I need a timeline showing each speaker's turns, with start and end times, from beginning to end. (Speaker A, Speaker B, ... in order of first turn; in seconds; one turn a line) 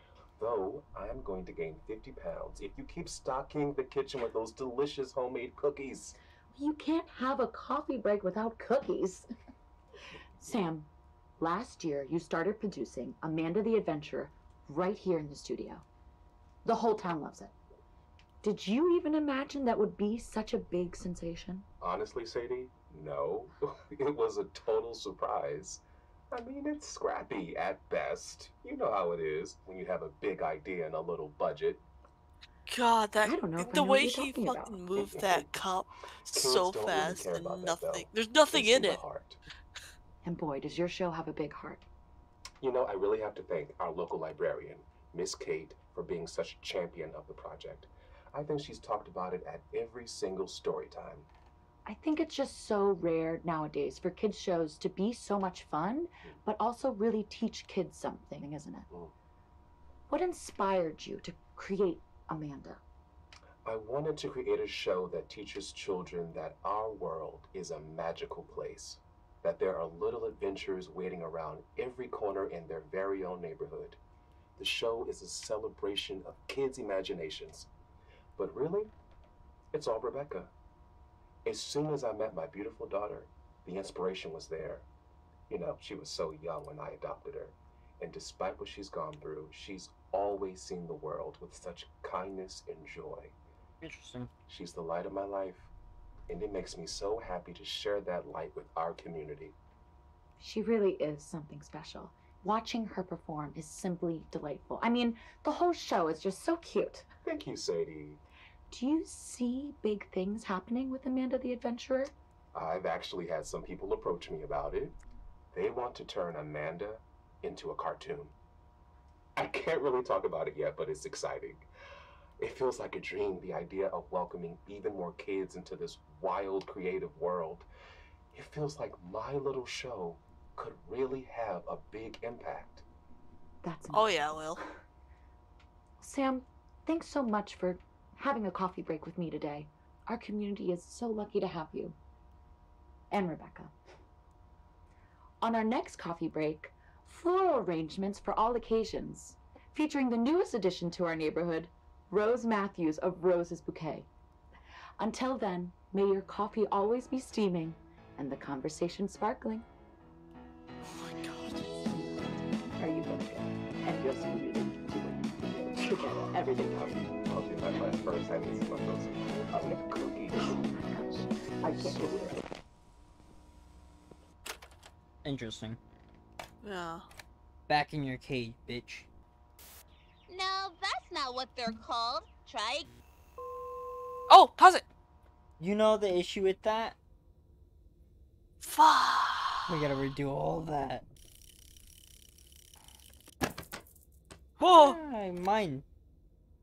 Speaker A: 0.4-6.2
Speaker B: 6.5-9.2
Speaker B: 10.4-15.8
Speaker B: 16.6-17.5
Speaker B: 18.4-21.6
Speaker A: 21.8-31.8
Speaker C: 32.7-39.0
Speaker B: 33.2-34.9
Speaker A: 35.0-35.5
Speaker A: 36.3-39.4
Speaker B: 40.2-41.8
Speaker A: 42.6-51.3
Speaker B: 51.9-58.9
Speaker B: 60.1-62.8
Speaker A: 63.6-74.0
Speaker A: 74.6-77.7
Speaker A: 78.4-78.9
Speaker A: 79.7-80.5
Speaker A: 81.4-84.9
Speaker A: 85.5-93.4
Speaker D: 93.8-94.3
Speaker A: 94.5-95.7
Speaker A: 96.3-99.5
Speaker B: 100.4-107.1
Speaker A: 107.2-108.2
Speaker B: 108.7-112.1
Speaker A: 112.5-115.0
Speaker A: 115.5-118.3
Speaker A: 119.3-121.7
Speaker A: 122.4-127.7
Speaker A: 128.3-132.8
Speaker B: 133.6-134.6
Speaker C: 133.9-134.6
Speaker B: 136.0-142.0
Speaker B: 143.1-143.7
Speaker B: 145.4-154.1
Speaker B: 155.0-159.6
Speaker B: 162.8-164.5
Speaker A: 164.2-165.1
Speaker B: 165.7-166.9
Speaker A: 166.0-172.3
Speaker B: 171.6-172.4
Speaker D: 175.2-175.8
Speaker C: 176.6-177.1
Speaker D: 177.7-179.1
Speaker E: 180.3-182.9
Speaker C: 184.3-184.8
Speaker D: 185.6-186.9
Speaker C: 188.6-189.7
Speaker D: 189.7-191.0
Speaker C: 194.6-195.0
Speaker D: 194.6-195.8